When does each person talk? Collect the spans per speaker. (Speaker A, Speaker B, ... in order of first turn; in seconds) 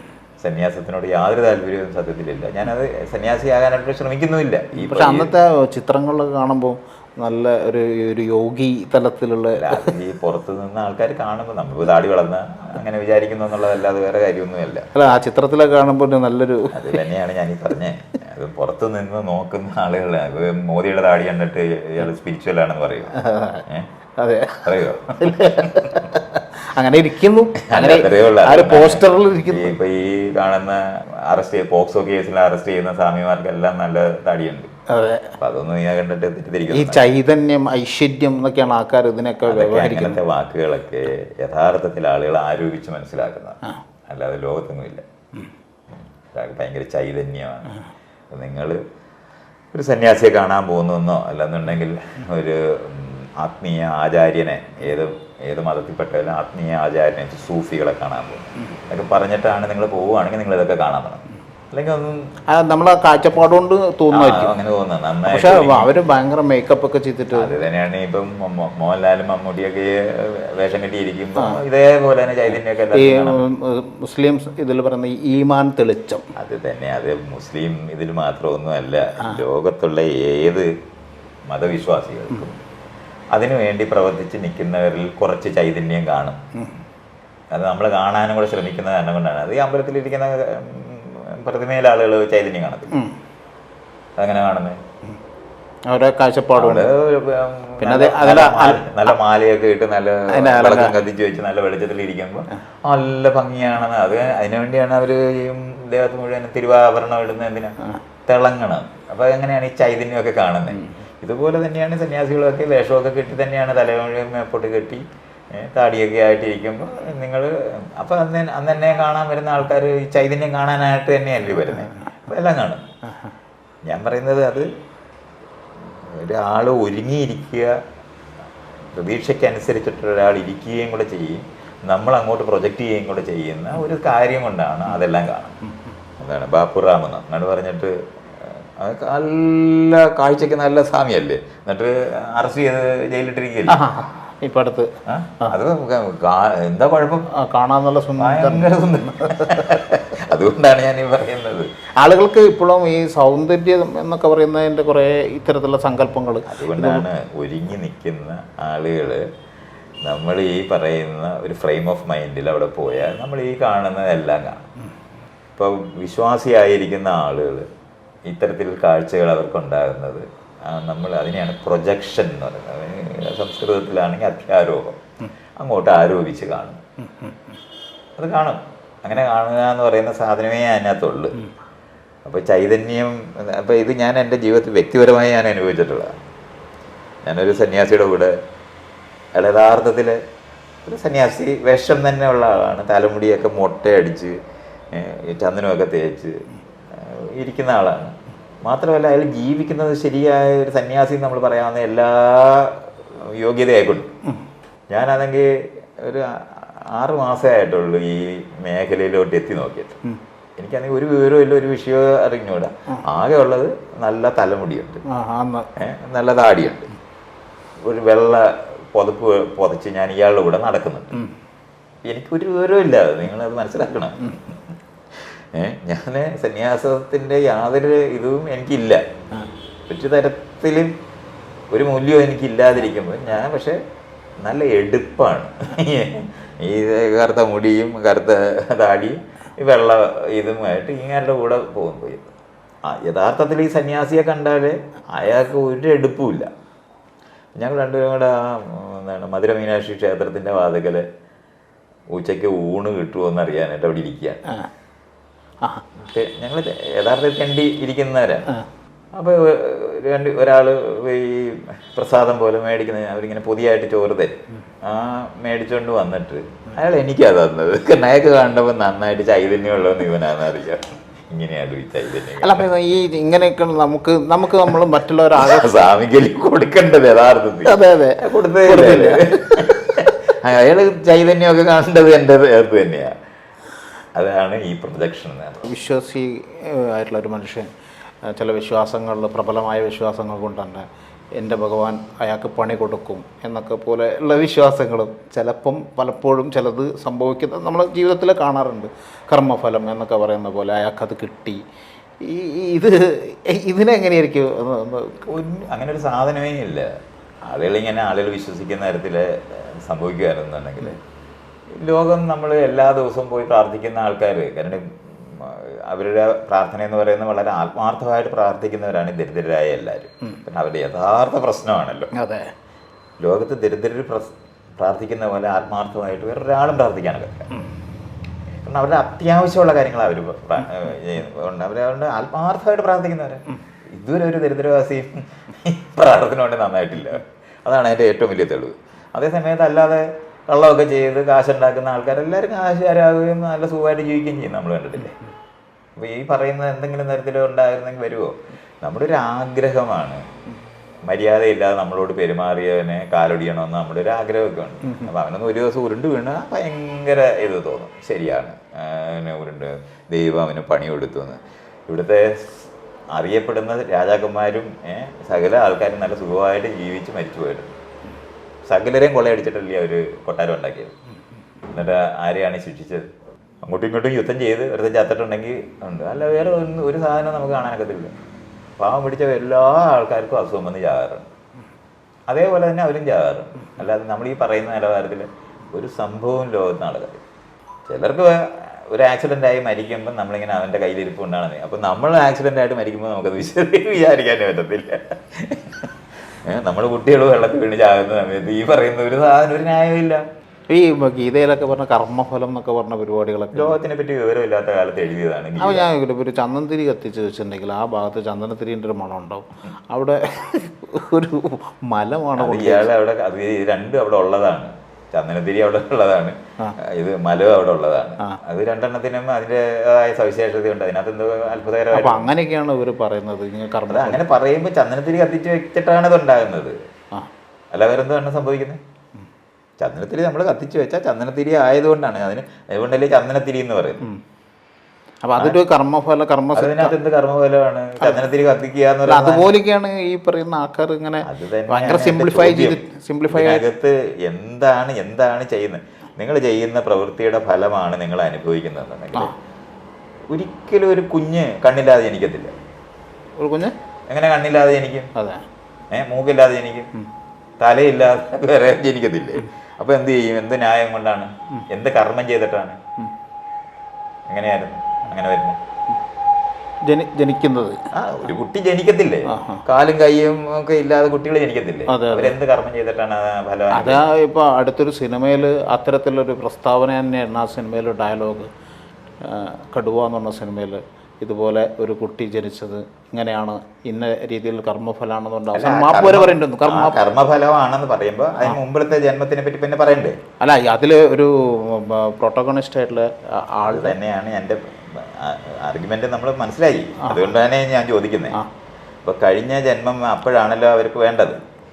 Speaker A: 0.4-5.3, 9.6-14.9, 16.7-23.1, 24.6-26.1, 27.6-34.7, 35.4-37.0, 39.4-45.1, 45.9-47.8, 48.3-48.8, 49.7-62.3, 64.1-65.9, 67.3-73.4, 76.4-80.7, 81.5-82.6, 83.3-86.4, 87.5-93.0, 94.2-94.8, 96.6-107.7, 108.3-122.8, 123.8-124.7, 125.8-127.8, 128.9-135.6, 136.2-143.8, 145.1-147.3, 148.2-151.7, 156.5-159.3, 160.0-164.6, 165.6-167.7, 168.3-175.0, 175.6-176.8, 178.2-181.4, 182.3-186.2, 187.2-188.4, 189.3-190.2, 190.9-194.4, 194.9-204.1, 204.9-210.0, 210.6-215.0, 215.8-216.9, 217.8-221.2, 222.0-224.6, 225.2-229.0, 229.9-230.9, 231.7-233.8, 234.4-242.3, 242.8-246.5, 247.6-251.1, 252.1-254.4, 256.0-258.5, 259.1-272.7, 275.4-283.1, 284.1-285.6, 305.2-306.9, 307.4-311.0, 311.7-322.1, 323.2-327.5, 328.6-345.2, 346.0-350.2, 351.1-367.8, 368.7-370.9, 371.7-373.1, 373.6-378.1, 378.8-381.3, 382.3-387.2, 387.9-400.3, 403.5-405.9, 412.4-422.3, 423.9-426.8, 427.7-428.8, 429.8-434.1, 436.6-439.5, 441.2-449.3, 450.3-452.6, 454.1-455.1, 455.9-456.9, 457.6-462.8, 464.3-465.6, 467.9-474.1, 485.5-490.2, 493.7-498.4, 499.1-501.4
Speaker B: 4.8-9.9, 14.9-17.0, 23.2-23.7, 24.2-24.7, 25.2-29.8, 34.9-35.4, 36.7-40.2, 62.5-64.5, 65.3-67.5, 71.4-71.6, 72.9-76.2, 95.9-96.9, 97.8-98.9, 100.3-101.0, 143.7-145.5, 147.3-149.8, 152.0-157.1, 177.1-177.4, 215.1-215.7, 272.4-275.7, 277.7-280.1, 285.6-287.7, 288.2-301.6, 302.2-305.2, 322.1-322.5, 400.7-403.8, 405.6-412.9, 421.9-424.2, 435.2-437.0, 439.1-443.6, 453.4-453.7, 455.2-455.4, 466.9-467.8, 469.3-469.6, 471.9-472.4, 473.7-478.5, 479.2-487.0, 490.4-494.0, 497.0-497.3